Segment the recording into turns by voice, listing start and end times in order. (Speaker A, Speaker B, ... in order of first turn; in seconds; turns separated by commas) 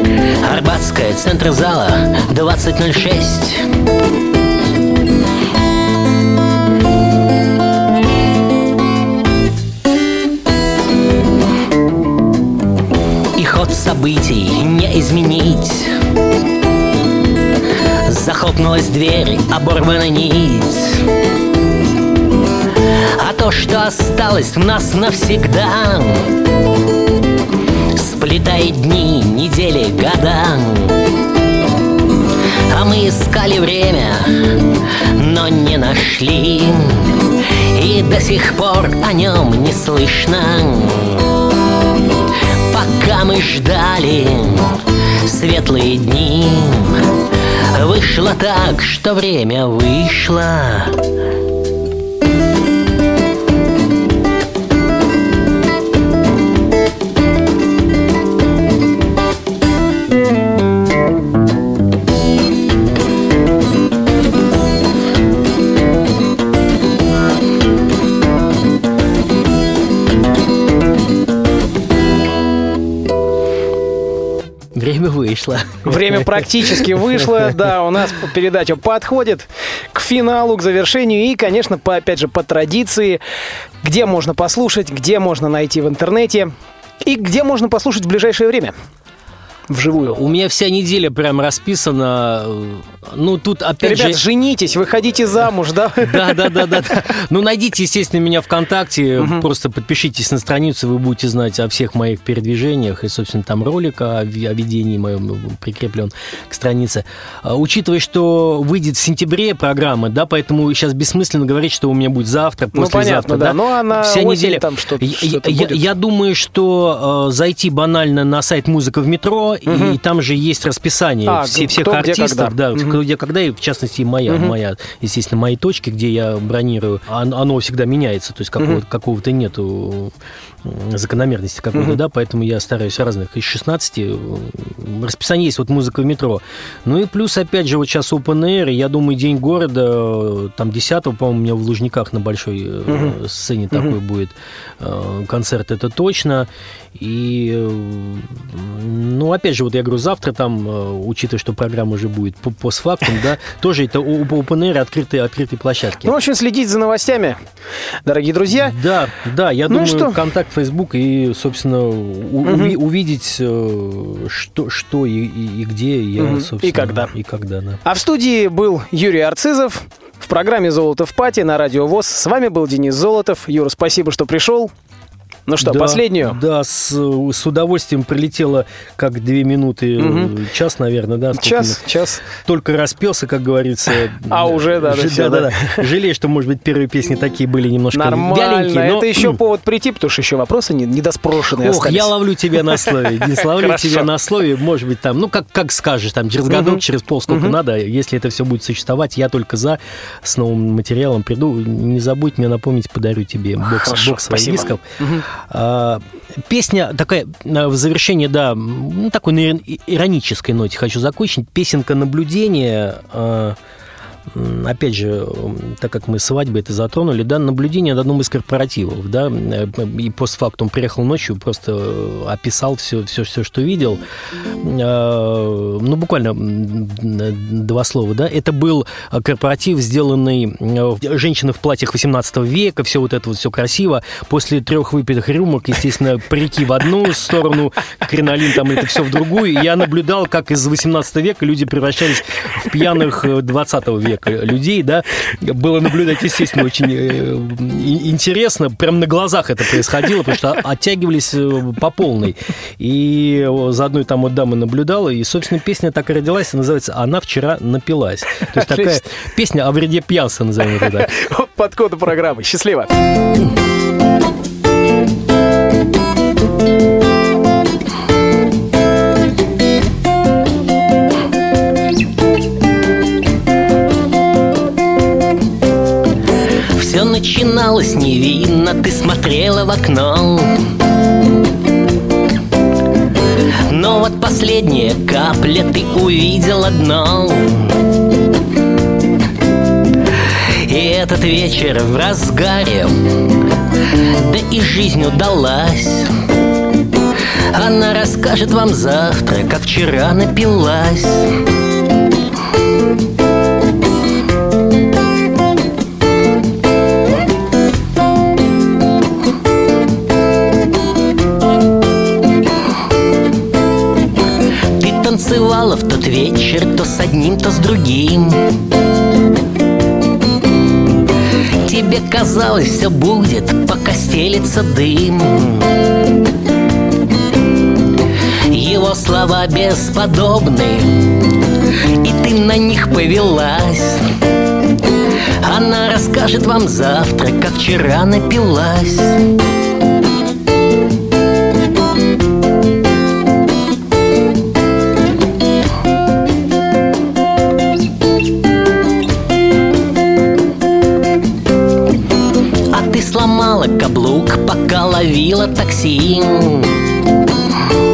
Speaker A: 0.4-3.7, Speaker A: 13.3-15.9, Speaker A: 18.0-21.1, Speaker A: 22.9-26.3, Speaker A: 27.9-31.0, Speaker A: 32.7-41.3, Speaker A: 42.7-51.0, Speaker B: 74.7-77.0, Speaker C: 75.8-83.2, Speaker C: 83.8-86.5, Speaker C: 87.0-88.7, Speaker C: 89.7-90.2, Speaker B: 90.1-94.2, Speaker C: 93.8-96.6, Speaker B: 96.0-156.1, Speaker C: 99.2-99.4, Speaker C: 112.7-115.8, Speaker C: 119.7-120.0, Speaker C: 121.3-123.0, Speaker C: 124.3-124.5, Speaker C: 142.9-143.2, Speaker C: 156.0-157.4, Speaker C: 158.0-158.8, Speaker B: 158.5-167.8, Speaker C: 159.7-160.2, Speaker C: 162.4-162.8, Speaker C: 166.2-167.1, Speaker C: 167.8-174.7, Speaker C: 175.5-176.4, Speaker B: 175.6-189.4, Speaker C: 180.0-180.3, Speaker C: 181.3-182.2, Speaker C: 184.3-185.8, Speaker C: 187.9-192.1, Speaker B: 191.5-213.6, Speaker C: 192.7-194.1, Speaker C: 196.5-197.6, Speaker C: 203.6-205.2, Speaker B: 214.3-224.0, Speaker B: 224.6-261.1, Speaker C: 258.5-259.0, Speaker C: 260.8-262.9, Speaker A: 276.7-280.6, Speaker A: 283.6-287.8, Speaker A: 290.1-296.1, Speaker A: 297.5-301.4, Speaker A: 314.8-318.5, Speaker A: 321.6-325.7, Speaker A: 328.4-330.9, Speaker A: 332.0-334.1, Speaker A: 335.4-339.2, Speaker A: 352.7-356.8